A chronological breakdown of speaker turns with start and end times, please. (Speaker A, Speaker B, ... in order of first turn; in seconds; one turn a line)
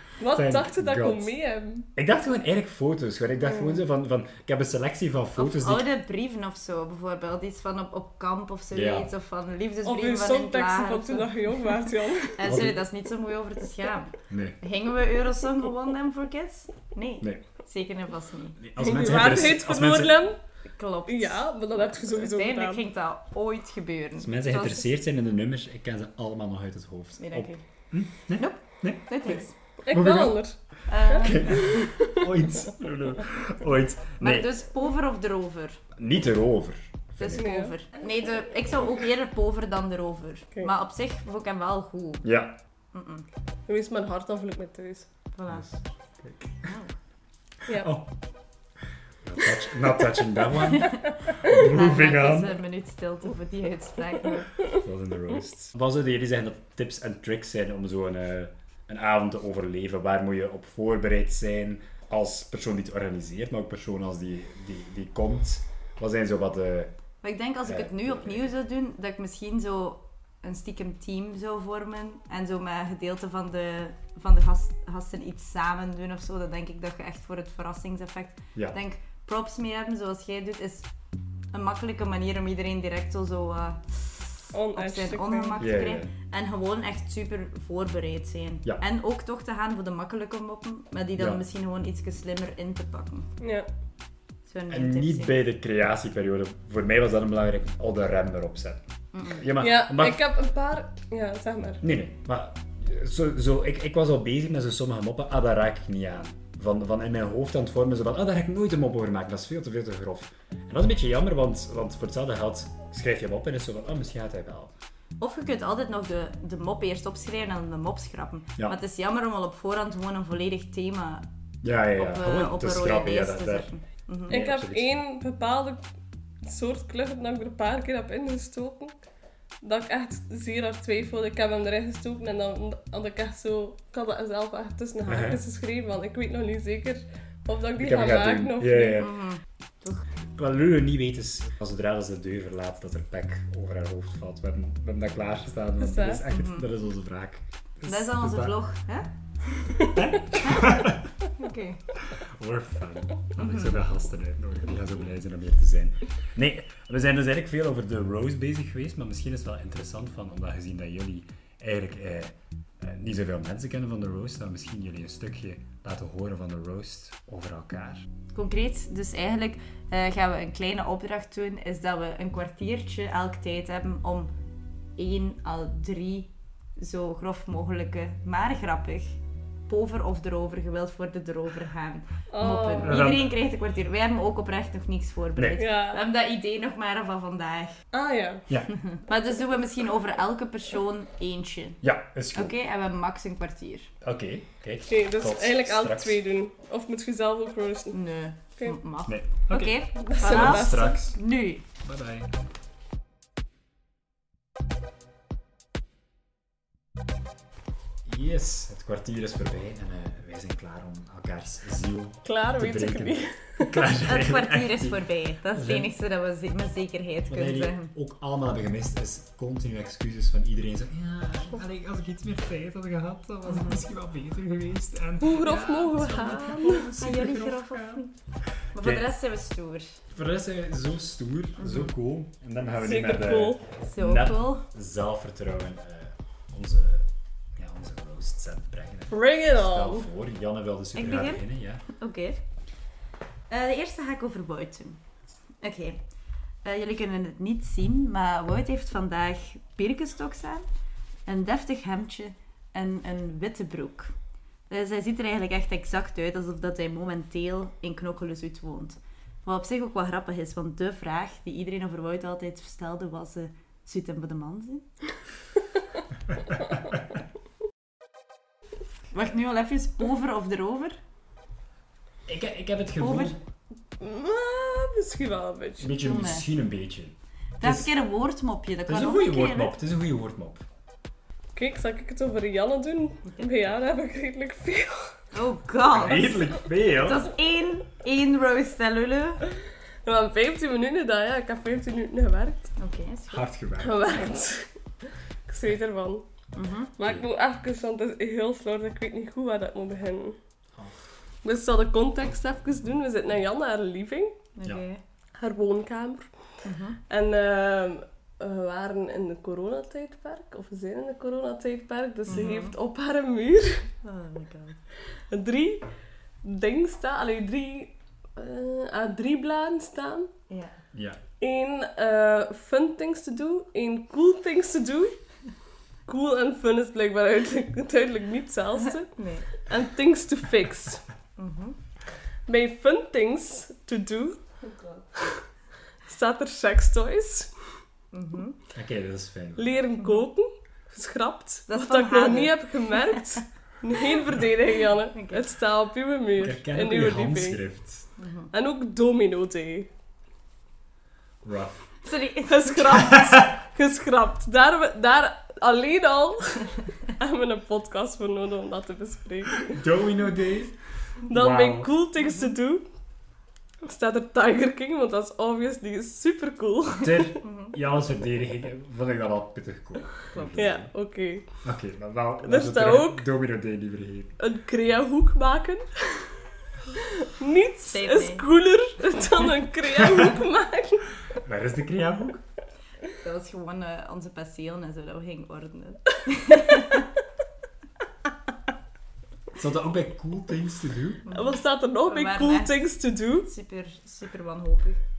Speaker A: 0.2-1.9
Speaker B: 0.3-1.3
Speaker B: 2.0-5.9
Speaker C: 5.4-11.4
Speaker B: 8.7-9.1
Speaker A: 9.8-12.4
Speaker C: 12.3-18.6
Speaker B: 12.4-12.8
Speaker B: 14.3-14.6
Speaker B: 18.6-20.3
Speaker A: 18.8-20.4
Speaker C: 20.8-24.9
Speaker A: 21.1-22.8
Speaker B: 24.2-30.4
Speaker C: 27.2-27.6
Speaker C: 28.4-29.5
Speaker A: 29.9-30.6
Speaker C: 30.9-31.6
Speaker A: 31.1-32.2
Speaker B: 31.1-34.5
Speaker C: 34.2-35.8
Speaker B: 36.0-37.5
Speaker C: 37.2-42.3
Speaker A: 37.4-37.7
Speaker B: 42.2-42.6
Speaker C: 42.9-43.3
Speaker A: 43.7-45.1
Speaker C: 45.4-45.7
Speaker B: 45.5-46.6
Speaker C: 46.6-46.9
Speaker B: 47.7-48.1
Speaker B: 49.2-52.6
Speaker C: 50.8-54.5
Speaker B: 54.7-66.9
Speaker C: 67.2-80.9
Speaker B: 67.6-68.5
Speaker C: 81.5-93.3
Speaker A: 84.5-85.6
Speaker B: 85.6-86.1
Speaker B: 91.2-91.4
Speaker A: 93.4-93.7
Speaker C: 94.5-95.4
Speaker B: 94.7-100.2
Speaker C: 99.1-99.4
Speaker A: 99.6-101.8
Speaker B: 101.8-114.7
Speaker C: 115.2-121.3
Speaker B: 121.6-123.7
Speaker C: 121.9-124.4
Speaker B: 124.3-125.0
Speaker A: 124.3-125.8
Speaker A: 126.4-129.0
Speaker A: 129.6-139.1
Speaker B: 135.1-135.4
Speaker B: 137.8-139.2
Speaker C: 139.0-140.0
Speaker B: 140.4-148.6
Speaker A: 145.8-146.2
Speaker C: 146.3-146.7
Speaker C: 147.9-149.1
Speaker B: 149.9-151.1
Speaker C: 150.4-150.8
Speaker C: 151.3-151.8
Speaker B: 152.0-168.1
Speaker C: 153.4-153.7
Speaker C: 168.3-174.3
Speaker C: 175.0-179.2
Speaker C: 179.7-187.8
Speaker A: 182.3-183.1
Speaker B: 182.8-183.3
Speaker A: 185.6-186.0
Speaker A: 187.9-188.4
Speaker C: 188.7-191.8
Speaker B: 191.8-192.6
Speaker C: 192.3-193.9
Speaker B: 194.0-196.2
Speaker A: 194.9-198.0
Speaker C: 197.9-201.6
Speaker B: 199.1-201.2
Speaker A: 200.0-201.0
Speaker B: 201.8-202.3
Speaker B: 208.1-215.9
Speaker A: 212.2-213.8
Speaker C: 214.1-217.9
Speaker B: 217.3-228.0
Speaker C: 223.5-223.8
Speaker A: 225.2-226.9
Speaker C: 227.0-228.1
Speaker B: 228.6-229.1
Speaker C: 228.7-230.0
Speaker B: 230.1-241.8
Speaker C: 231.6-231.9
Speaker A: 232.8-233.6
Speaker C: 233.8-234.7
Speaker A: 239.1-240.1
Speaker C: 240.9-242.4
Speaker C: 243.5-245.0
Speaker C: 245.6-246.0
Speaker C: 246.6-250.7
Speaker C: 251.3-254.1
Speaker C: 254.7-264.9
Speaker C: 269.1-271.0
Speaker B: 272.3-273.4
Speaker C: 273.0-273.4
Speaker A: 274.0-275.9
Speaker B: 275.8-277.9
Speaker C: 276.0-276.5
Speaker C: 277.6-279.8
Speaker B: 278.9-280.6
Speaker A: 281.6-285.2
Speaker C: 285.3-289.4
Speaker B: 285.9-287.3
Speaker A: 290.1-292.7
Speaker C: 292.8-293.4
Speaker B: 293.3-294.1
Speaker A: 293.8-296.2
Speaker C: 296.6-296.9
Speaker A: 297.0-300.4
Speaker A: 301.4-304.4
Speaker C: 304.6-305.0
Speaker A: 305.4-313.9
Speaker C: 306.6-307.0
Speaker C: 312.3-312.7
Speaker C: 314.0-314.8
Speaker A: 315.3-315.9
Speaker A: 316.4-320.3
Speaker C: 320.5-320.8
Speaker B: 320.9-321.2
Speaker A: 321.4-325.1
Speaker A: 326.1-331.0
Speaker C: 329.1-329.5
Speaker C: 331.4-331.8
Speaker A: 332.5-334.4
Speaker A: 336.1-337.5
Speaker C: 338.1-338.6
Speaker B: 338.7-339.8
Speaker A: 339.6-347.6
Speaker C: 340.0-340.2
Speaker C: 341.7-343.4
Speaker C: 345.1-345.4
Speaker B: 346.4-348.1
Speaker C: 348.2-348.5
Speaker A: 348.5-349.9
Speaker B: 351.4-351.9
Speaker C: 352.0-352.8
Speaker A: 352.5-359.8
Speaker B: 352.9-353.6
Speaker B: 359.7-361.9
Speaker A: 361.3-362.8
Speaker C: 362.2-362.5
Speaker A: 363.8-367.4
Speaker B: 367.0-370.9
Speaker C: 367.4-367.8
Speaker C: 370.3-370.6
Speaker A: 370.6-371.4
Speaker B: 371.6-374.3
Speaker A: 372.4-373.2
Speaker A: 374.4-376.3
Speaker A: 376.9-381.1
Speaker C: 377.9-378.5
Speaker B: 381.4-382.4
Speaker C: 383.1-387.1
Speaker B: 389.5-391.2
Speaker C: 391.3-392.8
Speaker A: 391.3-393.5
Speaker C: 393.4-395.0